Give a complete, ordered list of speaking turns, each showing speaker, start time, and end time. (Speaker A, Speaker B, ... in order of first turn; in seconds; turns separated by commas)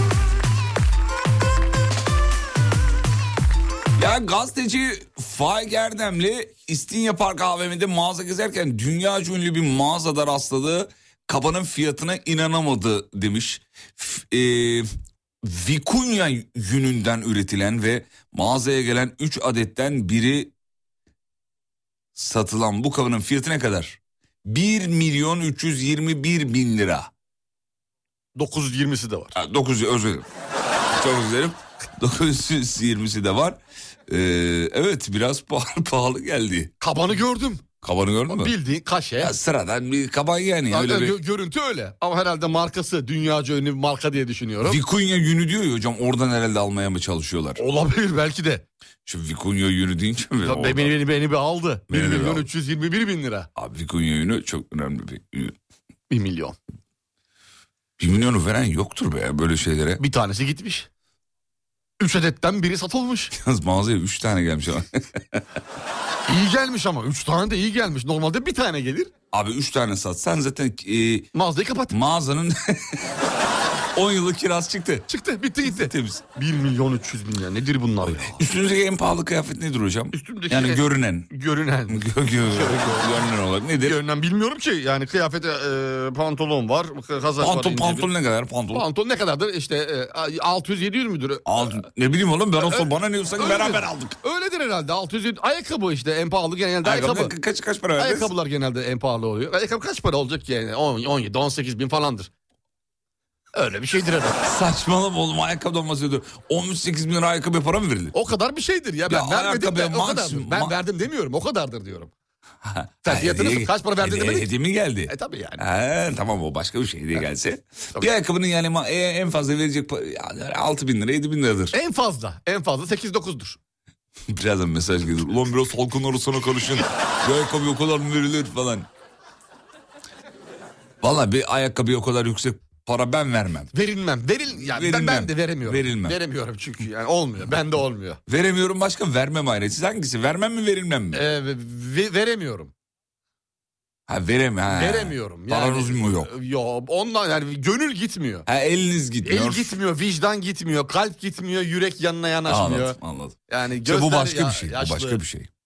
Speaker A: 4.0-14.9, Speaker A: 15.4-20.5, Speaker A: 22.1-27.1, Speaker B: 28.4-29.3, Speaker A: 29.3-30.3, Speaker A: 30.9-36.7, Speaker B: 36.8-37.7, Speaker A: 37.8-38.5, Speaker B: 38.3-39.3, Speaker A: 39.2-41.2, Speaker B: 40.7-44.8, Speaker A: 44.6-47.6, Speaker B: 47.6-48.6, Speaker A: 49.0-51.0, Speaker B: 50.4-53.5, Speaker A: 51.9-52.5, Speaker A: 53.5-55.5, Speaker B: 56.1-56.5, Speaker A: 58.0-60.0, Speaker B: 60.0-60.9, Speaker B: 62.0-63.3, Speaker A: 63.3-65.4, Speaker B: 66.3-69.1, Speaker A: 69.3-71.3, Speaker B: 71.3-71.9, Speaker A: 71.9-73.1, Speaker A: 73.9-75.1, Speaker B: 75.1-78.4, Speaker A: 75.6-76.2, Speaker A: 78.2-81.3, Speaker B: 80.1-83.1, Speaker A: 81.9-84.0, Speaker B: 83.8-88.1, Speaker A: 87.4-88.8, Speaker B: 88.7-91.8, Speaker A: 91.5-94.1, Speaker B: 92.6-97.3, Speaker A: 96.8-98.3, Speaker B: 98.0-102.3, Speaker B: 103.5-104.4, Speaker A: 104.4-108.1, Speaker B: 108.1-112.1, Speaker A: 109.1-110.7, Speaker A: 112.6-121.7, Speaker B: 113.0-114.5, Speaker B: 115.0-115.6, Speaker B: 121.7-123.6, Speaker A: 124.3-128.9, Speaker A: 131.0-133.7, Speaker B: 133.7-138.2, Speaker A: 134.6-136.2, Speaker A: 138.3-141.2, Speaker B: 141.1-142.7, Speaker A: 144.1-146.3, Speaker B: 144.7-148.5, Speaker A: 148.5-149.8, Speaker B: 149.2-152.9, Speaker A: 152.4-155.5, Speaker B: 153.5-155.2